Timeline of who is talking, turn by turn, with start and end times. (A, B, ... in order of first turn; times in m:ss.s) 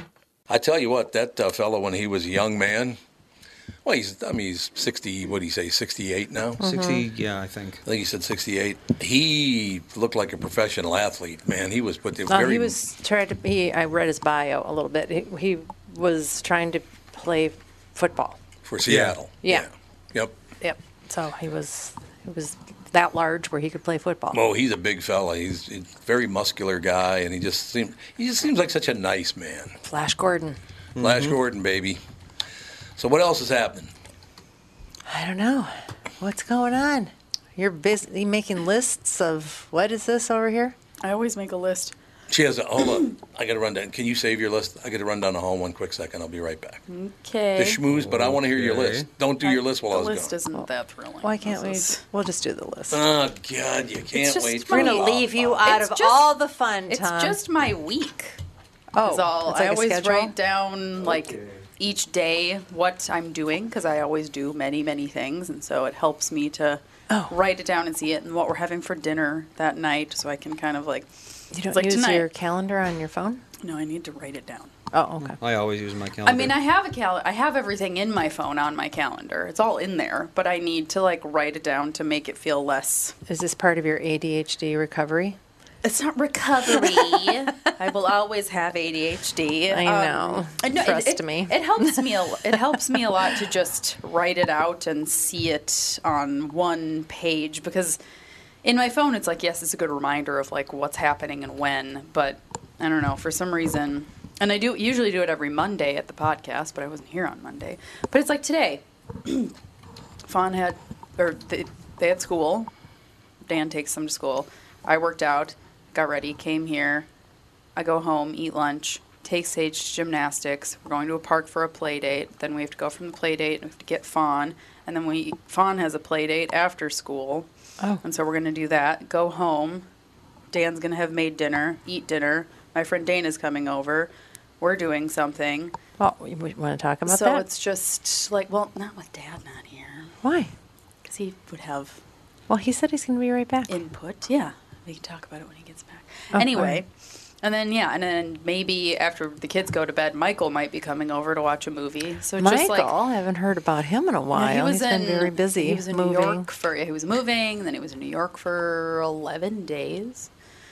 0:00.5-0:03.0 A
0:03.8-0:06.6 A
0:06.6-0:07.0 B
0:06.6-0:07.8 C
0:07.8-0:12.8 A
0:12.3-0:18.4 B
0:18.6-0:20.3 A
0:18.8-0:19.2 C
0:20.6-0:24.4 B
0:24.3-0:29.7 A
0:29.8-0:30.6 B
0:31.0-0:31.4 C
0:31.0-0:32.0 A
0:33.0-0:33.9 A
0:35.1-0:40.7 B
0:41.0-0:41.9 D
0:42.3-0:46.8 A
0:46.9-0:47.8 D
0:47.6-0:50.4 A
0:47.9-0:49.1 C
0:49.4-0:52.0 D
0:51.2-0:53.0 B
0:52.9-0:55.6 A
0:54.1-0:58.4 D
0:54.6-0:57.4 B
0:59.0-1:00.3 B
0:59.0-1:11.1 D
1:07.1-1:07.3 B
1:11.5-1:13.4 B
1:11.7-1:12.3 D
1:13.6-1:14.7 D
1:14.9-1:15.4 B
1:15.2-1:16.6 C
1:16.2-1:23.1 D
1:23.3-1:25.4 B
1:25.8-1:38.0 D
1:29.7-1:33.1 B
1:38.6-1:49.5 D
1:50.2-1:52.7 D
1:53.4-1:57.1 D
1:57.8-2:07.5 D
2:08.0-2:09.8 D
2:10.5-2:15.7 D
2:16.0-2:17.4 B
2:17.0-2:20.1 D
2:20.2-2:20.5 B
2:21.1-2:22.0 D
2:22.5-2:23.8 B
2:23.7-2:26.9 D
2:26.3-2:26.8 B
2:27.4-2:32.9 D
2:32.4-2:36.4 B
2:34.3-2:40.3 D